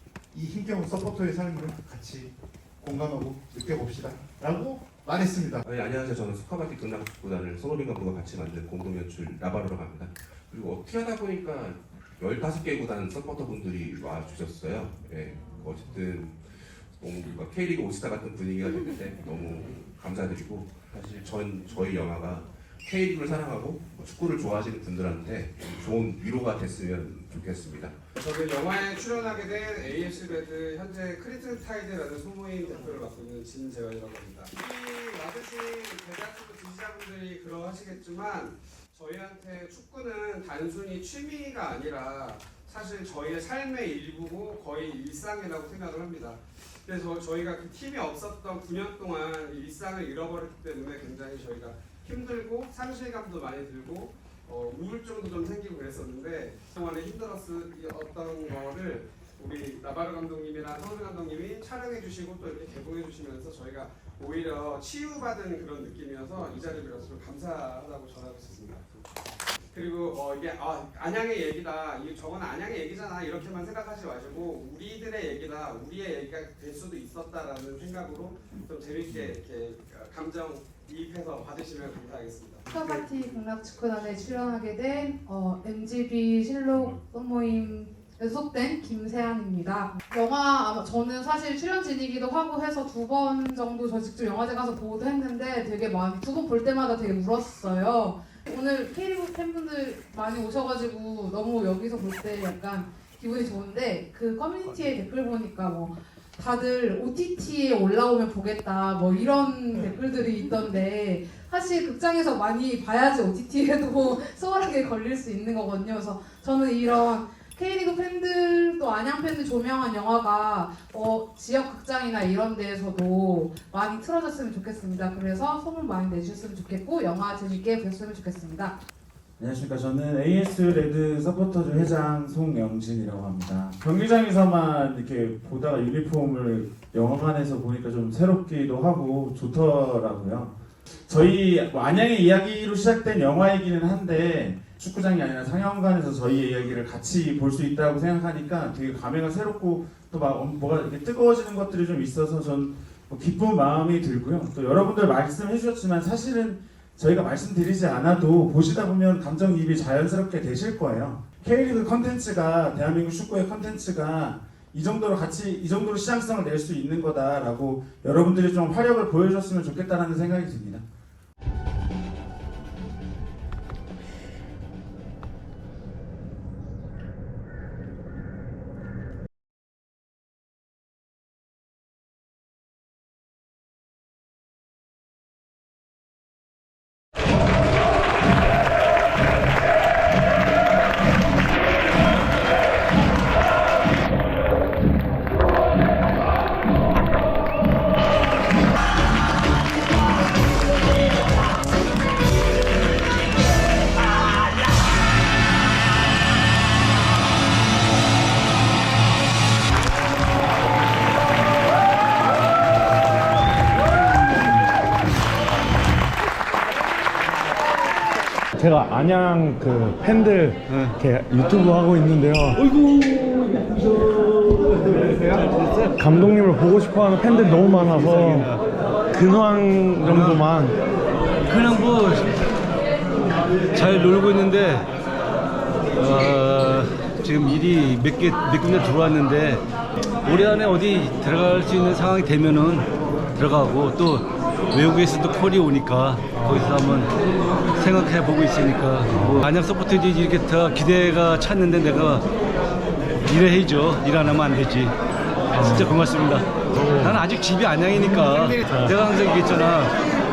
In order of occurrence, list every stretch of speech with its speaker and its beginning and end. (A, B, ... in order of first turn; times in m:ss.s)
0:00.3-0:05.7 A
0:05.7-0:28.0 B
0:28.2-1:09.0 C
1:09.7-1:23.0 C
1:22.7-2:08.8 D
2:09.4-2:20.6 E
2:21.1-2:50.8 E
3:38.6-3:42.6 F
3:40.7-3:40.9 G
3:42.6-3:46.0 G
3:45.9-3:48.5 F
3:47.6-3:48.6 G
3:49.1-3:50.8 F
3:50.0-3:50.4 G
3:51.5-3:52.2 G
3:53.7-3:54.9 G
3:56.0-3:59.6 G
4:00.2-4:07.1 G
4:07.8-4:12.2 G
4:09.1-4:09.4 F
4:13.3-4:14.9 G
4:15.5-4:19.9 G
4:15.6-4:16.0 F
4:16.7-4:17.2 F
4:18.4-4:19.0 F